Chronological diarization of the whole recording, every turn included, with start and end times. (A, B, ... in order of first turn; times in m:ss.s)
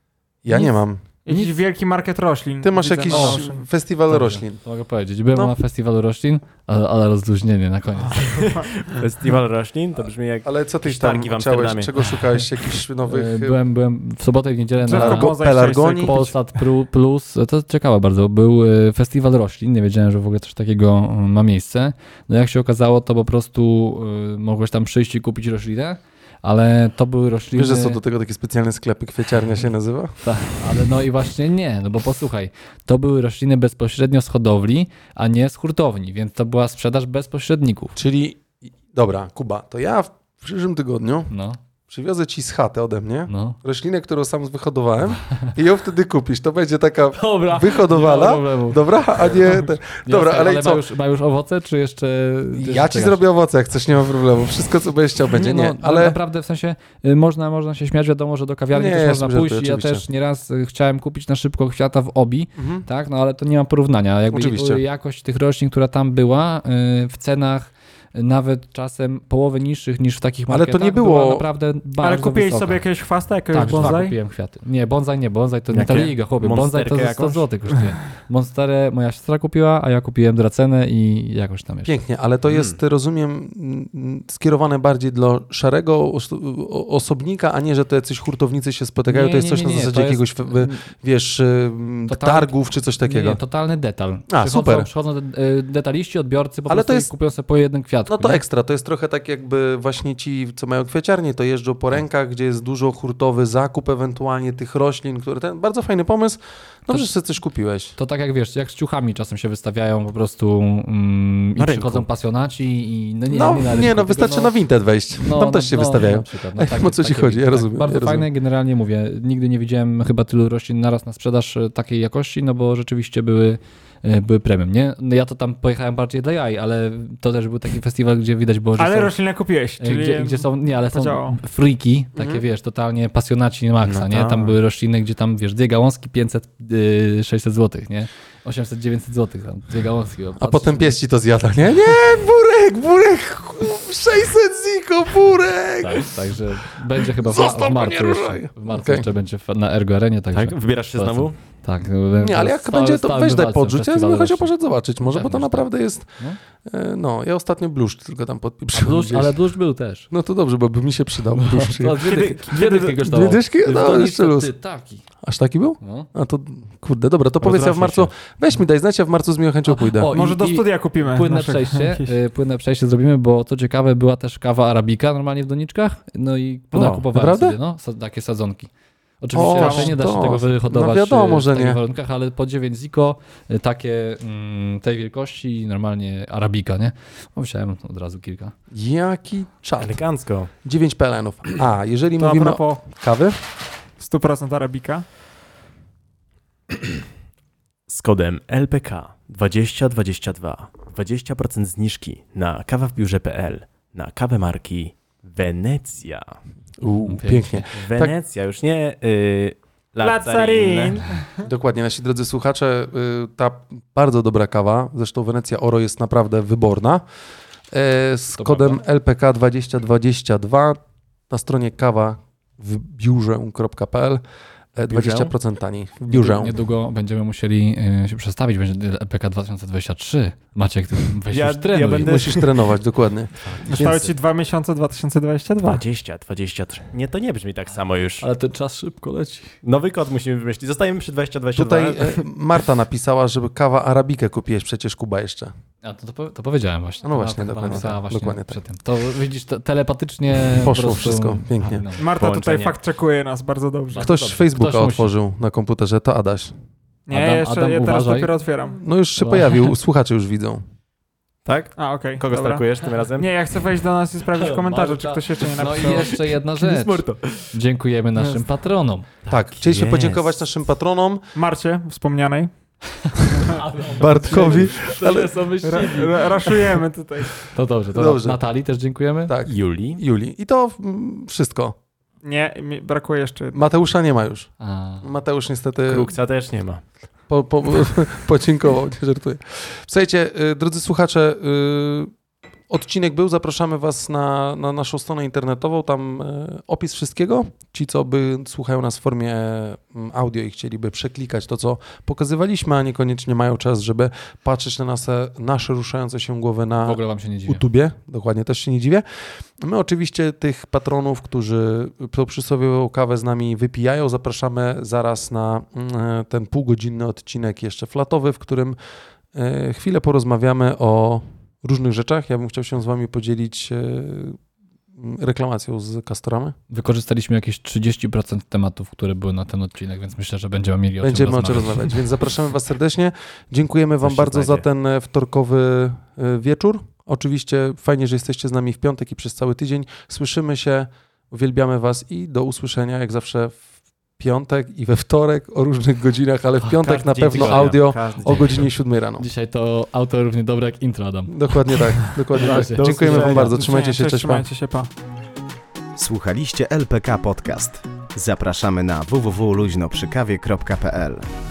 0:00.4-0:01.0 A
0:01.2-0:03.6 B
0:01.3-0:01.6 C
0:02.6-0:04.6 A
0:03.1-0:03.4 C
0:04.1-0:08.5 C
0:08.2-0:12.4 D
0:10.4-0:13.6 A
0:13.1-0:15.3 C
0:14.8-0:16.3 B
0:14.9-0:16.1 A
0:16.0-0:28.0 C
0:27.5-0:30.1 A
0:30.2-0:38.0 C
0:38.0-0:41.3 A
0:41.3-0:41.6 C
0:41.9-0:50.8 A
0:43.3-0:43.6 C
0:47.1-0:53.2 C
0:52.6-0:56.2 A
0:55.3-1:12.8 C
0:58.7-1:00.0 A
1:02.6-1:02.8 A
1:04.3-1:04.8 A
1:10.5-1:11.4 A
1:12.0-1:14.2 B
1:13.5-1:21.9 C
1:15.7-1:17.4 D
1:21.8-1:33.4 A
1:22.5-1:22.8 D
1:29.1-1:30.8 C
1:32.1-1:38.4 C
1:34.3-1:34.9 A
1:36.7-1:37.1 A
1:38.1-1:48.0 A
1:48.0-1:54.5 C
1:51.6-1:52.0 D
1:53.3-1:58.3 A
1:55.1-2:09.1 C
2:08.8-2:11.4 B
2:09.8-2:21.0 C
2:12.2-2:12.4 A
2:13.8-2:14.6 D
2:20.4-2:26.2 A
2:25.8-2:36.4 C
2:27.0-2:29.1 A
2:30.3-2:31.4 D
2:32.2-2:36.1 A
2:36.6-2:39.4 A
2:38.7-2:40.1 C
2:40.1-2:44.5 A
2:41.3-2:45.0 C
2:45.2-2:50.1 A
2:45.8-2:46.1 C
2:47.4-2:48.1 C
2:49.6-2:58.7 C
2:50.1-2:52.1 B
2:56.7-2:57.6 A
2:59.2-3:08.5 C
2:59.3-3:01.8 A
2:59.5-3:00.0 B
3:08.7-3:10.0 A
3:09.8-3:10.5 D
3:10.6-3:13.4 A
3:12.2-3:12.8 B
3:14.0-3:15.0 B
3:17.9-3:26.3 D
3:26.8-3:28.2 A
3:27.1-3:27.6 C
3:27.7-3:31.1 D
3:30.0-3:31.5 B
3:31.4-3:37.0 A
3:37.7-3:40.8 A
3:38.3-3:38.8 C
3:41.3-3:44.2 A
3:44.8-3:46.5 A
3:44.9-3:45.3 C
3:46.1-3:52.2 C
3:51.3-3:52.6 D
3:52.0-3:53.9 A
3:53.6-3:54.1 D
3:53.7-3:55.8 B
3:55.6-3:58.2 D
3:58.2-3:59.6 C
3:59.6-4:02.2 D
4:01.5-4:05.5 A
4:05.8-4:12.0 C
4:07.0-4:08.6 A
4:10.5-4:11.8 A
4:12.0-4:14.1 B
4:12.1-4:12.8 D
4:13.9-4:15.1 C
4:14.0-4:16.5 A
4:17.1-4:18.8 B
4:17.1-4:18.3 C
4:18.8-4:20.6 A
4:19.2-4:19.7 C
4:21.4-4:23.3 D
4:21.8-4:26.2 B
4:24.3-4:29.2 C
4:25.8-4:27.5 D
4:28.2-4:28.4 B
4:29.3-4:31.2 A
4:29.6-4:30.2 D
4:31.3-4:32.5 B
4:33.1-4:36.3 C
4:33.9-4:35.4 A
4:35.6-4:37.4 B
4:37.4-4:39.3 C
4:37.9-4:38.4 A
4:39.3-4:41.7 A
4:39.5-4:40.0 D
4:42.2-4:43.6 B
4:43.5-4:44.5 A
4:44.6-4:45.0 C
4:45.0-4:46.1 A
4:45.9-4:46.8 D
4:47.3-4:52.1 A
4:52.7-5:09.0 A
5:06.8-5:07.6 C
5:09.6-5:18.8 A
5:19.3-5:24.4 A
5:25.0-5:26.6 A
5:26.7-5:32.0 C
5:31.0-5:43.6 A
5:34.0-5:34.6 D
5:44.2-5:49.2 A
5:46.6-5:48.7 D
5:47.3-5:47.7 C
5:49.2-5:53.6 C
5:51.3-5:54.4 A
5:52.4-5:53.5 D
5:53.5-5:54.9 B
5:56.0-6:01.2 E